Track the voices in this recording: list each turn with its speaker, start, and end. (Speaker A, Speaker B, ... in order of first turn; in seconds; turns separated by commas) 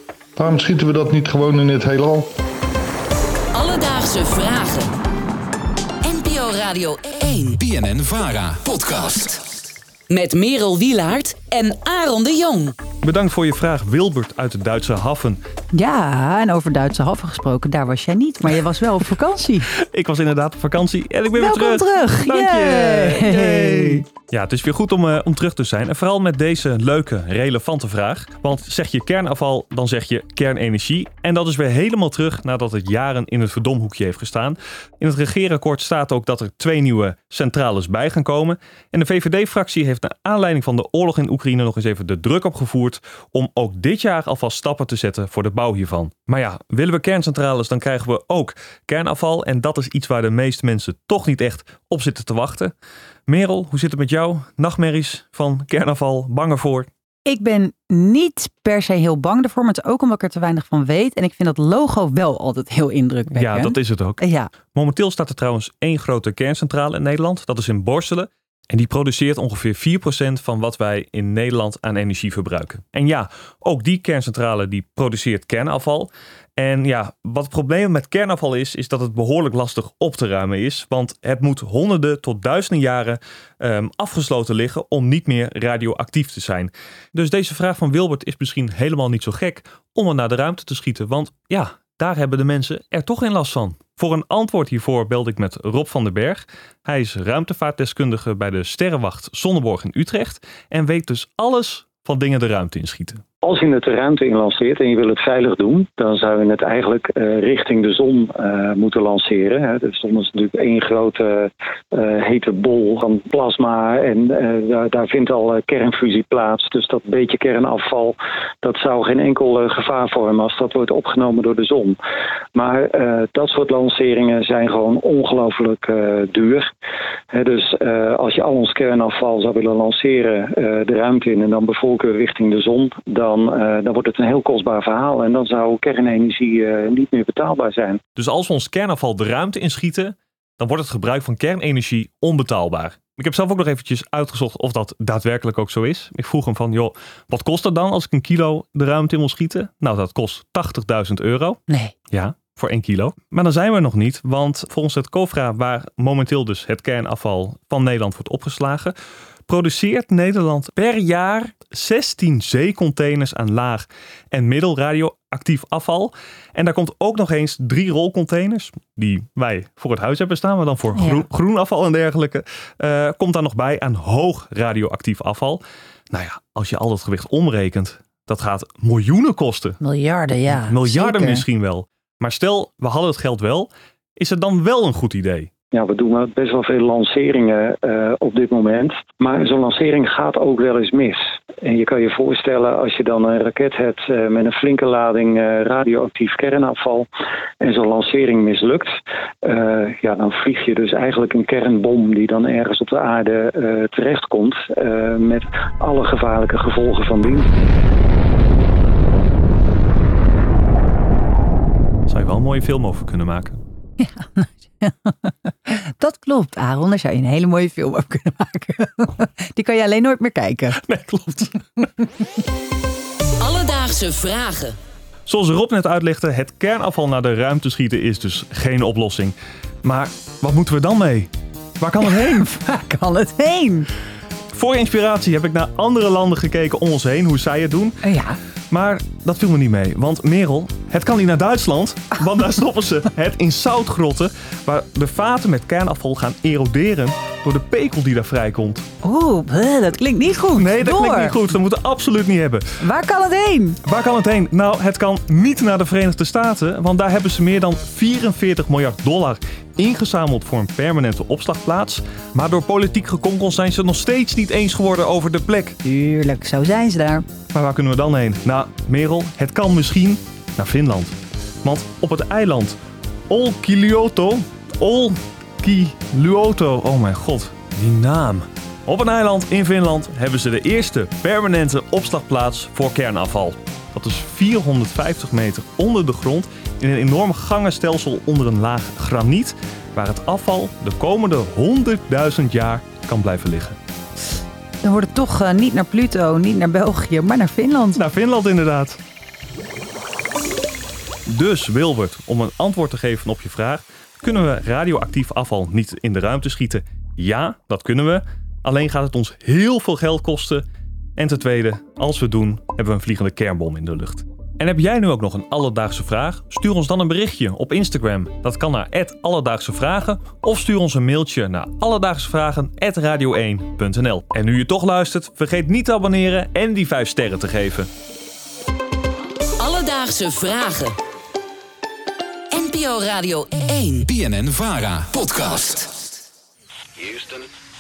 Speaker A: 0.4-2.3, Speaker B: 3.5-4.9, Speaker B: 6.0-7.5, Speaker C: 7.5-9.4, Speaker B: 10.1-12.8, Speaker D: 13.0-15.4, Speaker E: 15.7-19.7, Speaker D: 19.8-52.7, Speaker E: 21.3-24.1, Speaker D: 53.3-56.9, Speaker E: 57.3-64.5, Speaker D: 63.4-103.2, Speaker F: 103.4-122.0, Speaker F: 122.5-126.7, Speaker F: 127.3-138.0, Speaker D: 138.2-158.9, Speaker D: 159.5-179.8, Speaker E: 171.0-171.3, Speaker E: 179.8-181.4, Speaker D: 180.5-185.5, Speaker F: 185.7-197.1, Speaker F: 197.6-207.5, Speaker D: 212.1-213.6, Speaker E: 214.0-220.8, Speaker D: 220.8-221.9, Speaker B: 223.4-224.8, Speaker D: 225.3-232.5, Speaker E: 232.0-233.9, Speaker D: 234.5-238.0, Speaker E: 238.0-238.4, Speaker D: 238.7-248.9, Speaker E: 249.0-251.5, Speaker D: 250.6-252.7, Speaker E: 252.8-253.8, Speaker D: 253.8-265.8, Speaker E: 265.8-267.3, Speaker D: 267.5-272.8, Speaker D: 273.3-293.8, Speaker E: 294.8-298.0, Speaker D: 297.9-299.0, Speaker D: 301.3-310.6, Speaker D: 311.2-327.9, Speaker B: 329.6-331.0, Speaker B: 332.5-334.0, Speaker C: 334.0-335.9